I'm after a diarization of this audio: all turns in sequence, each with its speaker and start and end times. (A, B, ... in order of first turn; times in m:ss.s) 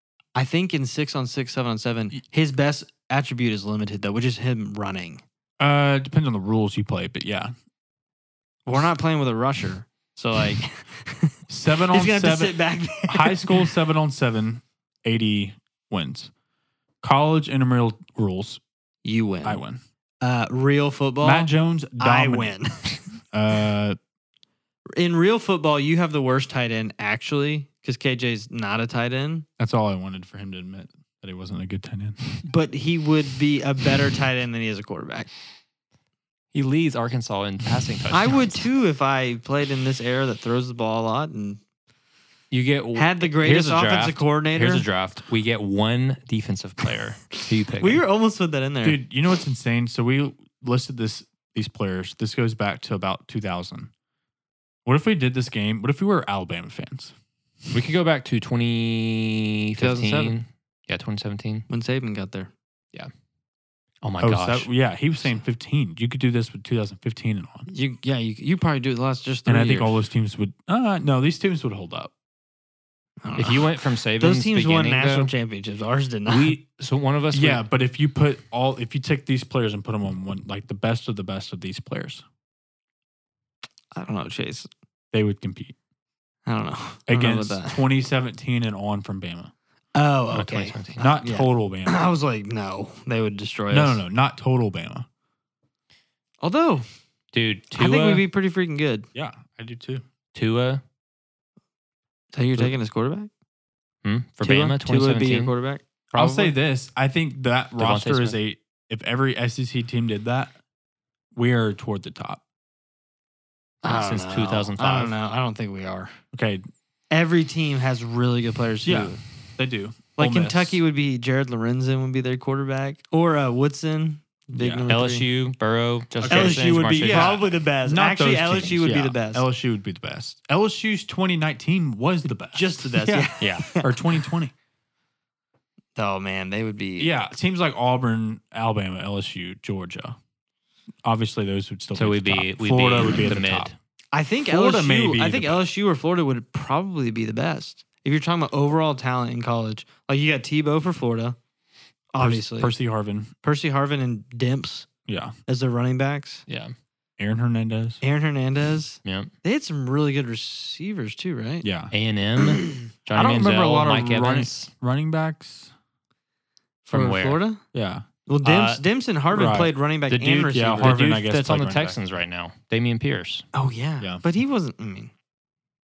0:00.3-0:05.2 A
0:05.6-0:07.5 B
0:08.6-0:13.7 A
0:11.5-0:16.3 B
0:17.0-0:18.6 B
0:19.0-0:19.6 A
0:19.4-0:19.8 B
0:20.2-0:23.1 A
0:21.2-0:22.5 B
0:23.3-0:24.0 B
0:25.0-0:29.5 A
0:29.6-0:32.3 B
0:32.4-0:35.3 A
0:36.5-0:38.6 C
0:38.1-0:41.6 A
0:42.5-0:48.0 C
0:42.9-0:44.9 A
0:47.7-0:49.0 A
0:48.8-0:53.9 B
0:54.8-0:57.1 B
0:57.7-1:01.6 C
0:59.8-1:00.4 A
1:01.7-1:02.5 A
1:04.0-1:04.7 C
1:04.2-1:07.7 B
1:07.7-1:10.0 A
1:09.4-1:12.1 B
1:13.2-1:16.6 A
1:13.3-1:15.3 C
1:16.3-1:17.6 C
1:17.3-1:22.2 B
1:24.0-1:24.7 A
1:25.1-1:25.8 B
1:26.4-1:27.9 A
1:27.1-1:29.5 B
1:29.9-1:34.0 A
1:30.3-1:31.1 C
1:30.9-1:32.1 B
1:33.7-1:35.1 B
1:36.4-1:36.8 A
1:37.3-1:38.2 C
1:37.7-1:39.1 A
1:39.1-1:40.0 B
1:40.3-1:40.8 C
1:42.3-1:43.3 A
1:44.0-1:45.5 C
1:44.4-1:46.5 A
1:46.1-1:50.5 B
1:47.8-1:48.4 C
1:51.3-1:52.4 B
1:53.8-1:56.2 A
1:53.9-1:54.4 B
1:54.3-1:55.1 C
1:56.3-1:56.6 B
1:57.1-1:59.2 A
1:58.8-2:00.8 B
2:00.2-2:05.3 A
2:04.5-2:05.0 B
2:04.9-2:07.5 C
2:06.2-2:14.5 B
2:06.3-2:09.4 A
2:12.5-2:13.9 A
2:13.4-2:13.7 C
2:16.0-2:17.2 A
2:17.0-2:20.2 B
2:21.0-2:23.7 B
2:21.9-2:23.7 C
2:24.1-2:31.4 A
2:24.5-2:25.7 B
2:32.1-2:32.7 A
2:32.2-2:33.3 B
2:33.4-2:34.9 A
2:35.0-2:35.3 B
2:35.5-2:36.4 A
2:36.5-2:36.7 C
2:37.2-2:38.0 B
2:38.0-2:41.7 A
2:39.0-2:39.3 C
2:41.6-2:41.9 B
2:41.9-2:44.7 C
2:42.4-2:42.9 A
2:43.1-2:45.7 B
2:46.9-2:47.6 A
2:46.9-2:47.4 C
2:47.7-2:48.0 B
2:48.3-2:51.0 A
2:48.4-2:48.8 C
2:49.3-2:52.0 B
2:50.8-2:53.4 C
2:53.5-2:55.1 A